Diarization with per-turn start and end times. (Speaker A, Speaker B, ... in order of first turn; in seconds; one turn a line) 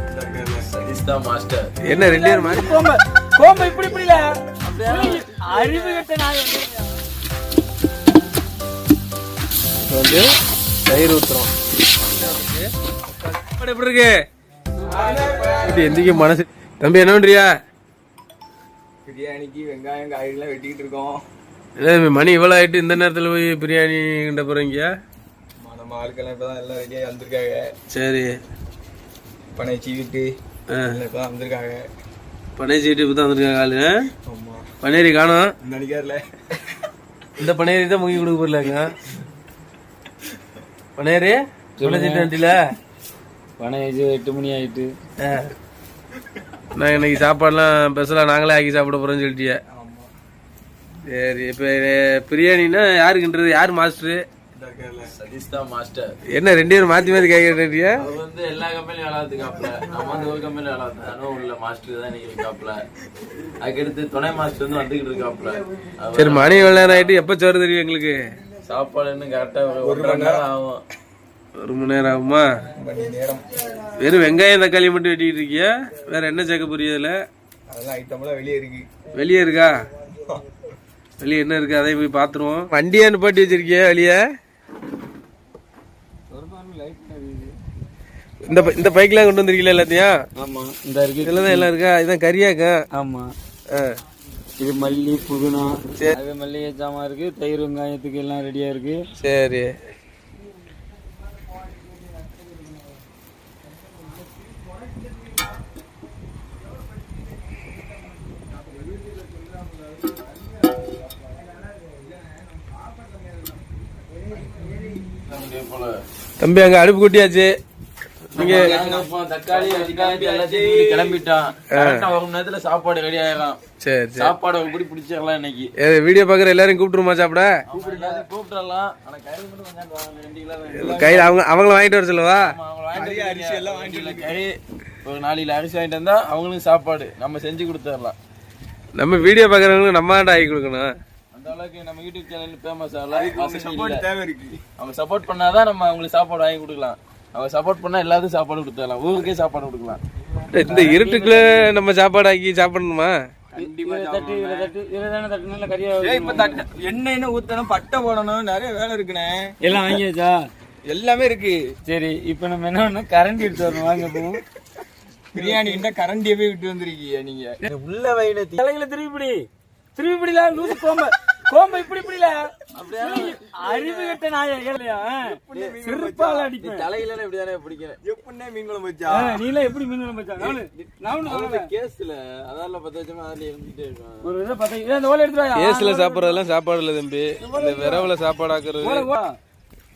Speaker A: 0.1-0.7
Speaker B: 0.7-1.7
Speaker C: 1.8-2.8
Speaker D: 1.9-7.0
Speaker B: 4.6-6.0
Speaker C: 9.8-10.2
Speaker C: 10.8-11.5
Speaker C: 12.0-14.1
Speaker A: 14.9-16.0
Speaker D: 14.9-15.3
Speaker C: 15.6-17.5
Speaker A: 19.0-21.1
Speaker C: 21.8-24.9
Speaker A: 25.6-27.7
Speaker C: 27.9-28.3
Speaker A: 29.6-30.3
Speaker C: 30.7-31.0
Speaker A: 30.8-31.8
Speaker C: 32.6-33.9
Speaker A: 34.2-34.6
Speaker C: 34.8-35.5
Speaker A: 35.6-36.2
Speaker C: 37.4-39.0
Speaker C: 41.0-42.6
Speaker D: 41.8-42.3
Speaker D: 43.6-44.9
Speaker C: 45.2-45.5
Speaker C: 46.8-49.6
Speaker A: 49.7-50.1
Speaker C: 51.1-54.2
Speaker A: 54.5-55.1
Speaker B: 55.1-56.1
Speaker C: 56.3-58.0
Speaker B: 58.0-62.8
Speaker B: 63.6-67.1
Speaker C: 66.1-68.2
Speaker B: 68.6-70.8
Speaker A: 69.8-70.5
Speaker C: 71.6-72.5
Speaker A: 72.8-73.5
Speaker C: 74.0-77.2
Speaker A: 77.7-78.9
Speaker C: 79.1-79.7
Speaker C: 81.2-84.2
Speaker D: 86.3-87.6
Speaker C: 88.4-90.1
Speaker D: 90.4-91.7
Speaker C: 91.2-92.7
Speaker D: 92.9-93.3
Speaker D: 94.6-99.0
Speaker C: 99.2-99.7
Speaker A: 111.9-113.5
Speaker B: 115.1-116.0
Speaker C: 116.4-117.5
Speaker A: 118.3-121.2
Speaker B: 118.3-123.6
Speaker C: 118.3-118.8
Speaker C: 121.7-122.1
Speaker C: 123.8-124.3
Speaker B: 124.2-125.7
Speaker C: 125.8-127.5
Speaker B: 127.7-131.3
Speaker A: 127.7-128.2
Speaker C: 130.8-132.5
Speaker A: 130.8-131.3
Speaker B: 132.5-138.2
Speaker A: 132.9-134.4
Speaker C: 138.9-140.9
Speaker B: 141.3-144.1
Speaker A: 143.1-144.6
Speaker B: 144.8-150.0
Speaker C: 150.5-153.1
Speaker D: 150.6-151.7
Speaker A: 153.5-154.7
Speaker D: 153.5-156.6
Speaker A: 156.0-159.5
Speaker D: 159.6-160.4
Speaker A: 160.9-161.6
Speaker D: 161.8-164.4
Speaker A: 165.3-167.5
Speaker D: 165.3-165.7
Speaker B: 167.7-168.6
Speaker D: 168.5-169.4
Speaker D: 169.9-176.9
Speaker B: 172.7-174.1
Speaker A: 175.3-176.5
Speaker B: 175.5-175.8
Speaker B: 176.6-178.0
Speaker A: 178.0-179.4
Speaker D: 179.1-181.7
Speaker B: 180.4-184.3
Speaker D: 184.2-186.4
Speaker C: 185.6-189.1
Speaker D: 187.4-188.1
Speaker D: 188.8-189.3